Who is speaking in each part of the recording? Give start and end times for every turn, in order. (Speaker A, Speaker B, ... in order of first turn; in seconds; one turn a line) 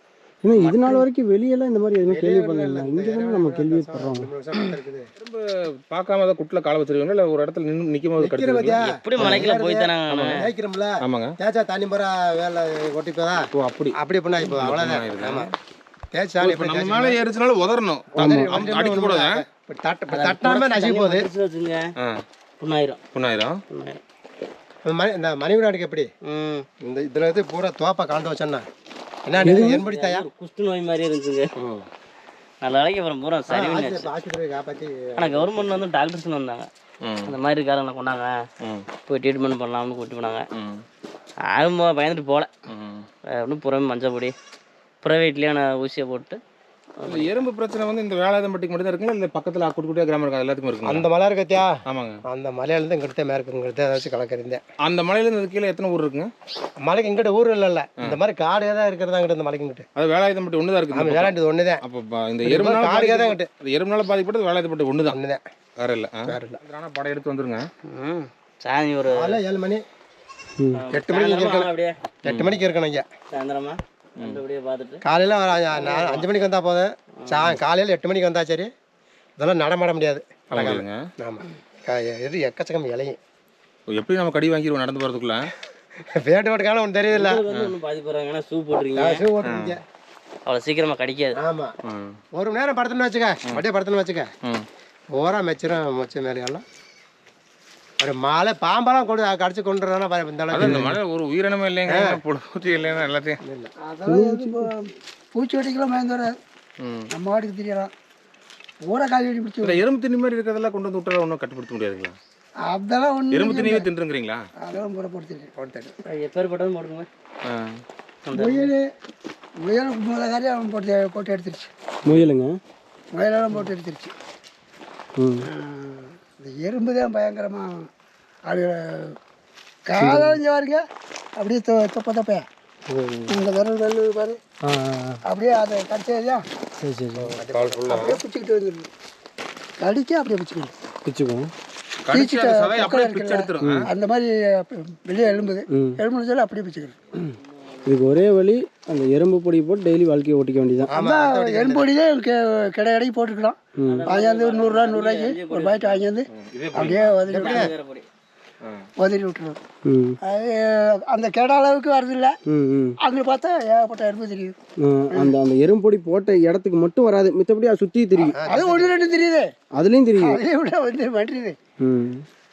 Speaker A: 0.4-4.3
Speaker B: 0.6-1.0
Speaker C: 2.1-5.1
Speaker D: 5.2-9.3
Speaker C: 8.2-13.4
Speaker B: 8.8-10.4
Speaker D: 10.1-10.4
Speaker D: 11.0-11.3
Speaker D: 13.6-15.5
Speaker C: 14.0-15.5
Speaker C: 16.1-17.2
Speaker D: 16.4-19.4
Speaker C: 18.1-21.3
Speaker A: 18.2-18.7
Speaker B: 20.1-21.8
Speaker B: 22.6-23.0
Speaker D: 23.1-23.6
Speaker B: 23.7-24.0
Speaker C: 24.8-26.1
Speaker B: 26.3-26.6
Speaker C: 26.8-28.6
Speaker C: 29.2-30.2
Speaker A: 29.4-29.8
Speaker B: 29.4-31.5
Speaker B: 32.6-34.1
Speaker C: 33.5-35.8
Speaker B: 35.2-36.7
Speaker D: 37.0-37.4
Speaker B: 37.3-38.3
Speaker B: 39.0-40.5
Speaker D: 40.5-40.8
Speaker B: 41.5-42.5
Speaker D: 42.7-43.1
Speaker B: 43.4-44.3
Speaker B: 45.0-46.4
Speaker B: 47.0-47.4
Speaker D: 47.0-51.1
Speaker C: 50.8-51.7
Speaker D: 51.9-52.2
Speaker C: 52.3-54.6
Speaker D: 54.8-56.3
Speaker C: 56.8-59.9
Speaker D: 60.0-65.2
Speaker C: 60.9-61.8
Speaker C: 62.4-63.5
Speaker C: 65.1-65.4
Speaker D: 65.8-67.6
Speaker C: 66.3-66.6
Speaker B: 67.9-69.4
Speaker C: 69.1-69.8
Speaker B: 70.8-71.9
Speaker C: 70.9-71.7
Speaker C: 72.2-73.0
Speaker D: 72.3-72.6
Speaker B: 73.3-75.0
Speaker C: 75.0-78.7
Speaker B: 75.7-76.3
Speaker B: 77.2-77.5
Speaker C: 79.4-83.2
Speaker D: 80.5-81.0
Speaker D: 83.9-85.5
Speaker C: 86.0-87.4
Speaker B: 87.1-89.2
Speaker D: 87.5-87.7
Speaker C: 89.0-89.8
Speaker D: 89.4-89.8
Speaker B: 90.5-91.4
Speaker C: 91.4-91.7
Speaker D: 91.8-92.2
Speaker C: 92.3-94.3
Speaker C: 95.1-96.6
Speaker C: 98.0-100.9
Speaker D: 100.5-103.4
Speaker A: 100.6-100.9
Speaker C: 101.9-102.2
Speaker C: 103.4-103.7
Speaker E: 103.8-106.4
Speaker A: 104.1-104.7
Speaker D: 106.8-107.1
Speaker E: 107.1-107.9
Speaker E: 108.9-109.8
Speaker D: 109.6-112.2
Speaker E: 112.7-113.9
Speaker D: 113.3-114.4
Speaker E: 114.6-115.5
Speaker C: 115.5-115.9
Speaker B: 116.0-117.1
Speaker D: 117.5-117.8
Speaker B: 118.2-118.7
Speaker E: 118.3-118.8
Speaker E: 119.6-121.7
Speaker A: 122.0-122.5
Speaker E: 123.1-124.1
Speaker A: 125.2-125.5
Speaker E: 125.5-127.8
Speaker E: 128.4-129.1
Speaker E: 129.9-130.8
Speaker A: 130.0-130.4
Speaker E: 131.4-132.4
Speaker A: 132.9-133.4
Speaker E: 133.3-134.4
Speaker A: 134.6-135.2
Speaker E: 135.2-136.4
Speaker A: 136.8-137.3
Speaker C: 137.2-138.2
Speaker D: 137.5-138.2
Speaker E: 137.9-138.9
Speaker E: 139.8-140.7
Speaker A: 141.1-141.5
Speaker D: 142.1-143.9
Speaker E: 142.1-147.0
Speaker A: 143.6-143.9
Speaker A: 145.7-146.0
Speaker A: 147.2-150.9
Speaker B: 147.6-147.9
Speaker C: 150.9-151.9
Speaker E: 150.9-157.7
Speaker A: 153.8-154.0
Speaker B: 153.8-156.1
Speaker D: 156.3-157.2
Speaker C: 157.3-157.7
Speaker B: 157.3-158.1
Speaker E: 159.0-159.6
Speaker A: 159.8-160.2
Speaker E: 160.2-162.3
Speaker A: 162.5-162.9
Speaker E: 163.0-164.5
Speaker A: 164.8-168.4
Speaker C: 168.2-168.9
Speaker E: 168.5-169.5
Speaker A: 169.8-170.4
Speaker E: 170.2-171.6
Speaker A: 171.8-172.2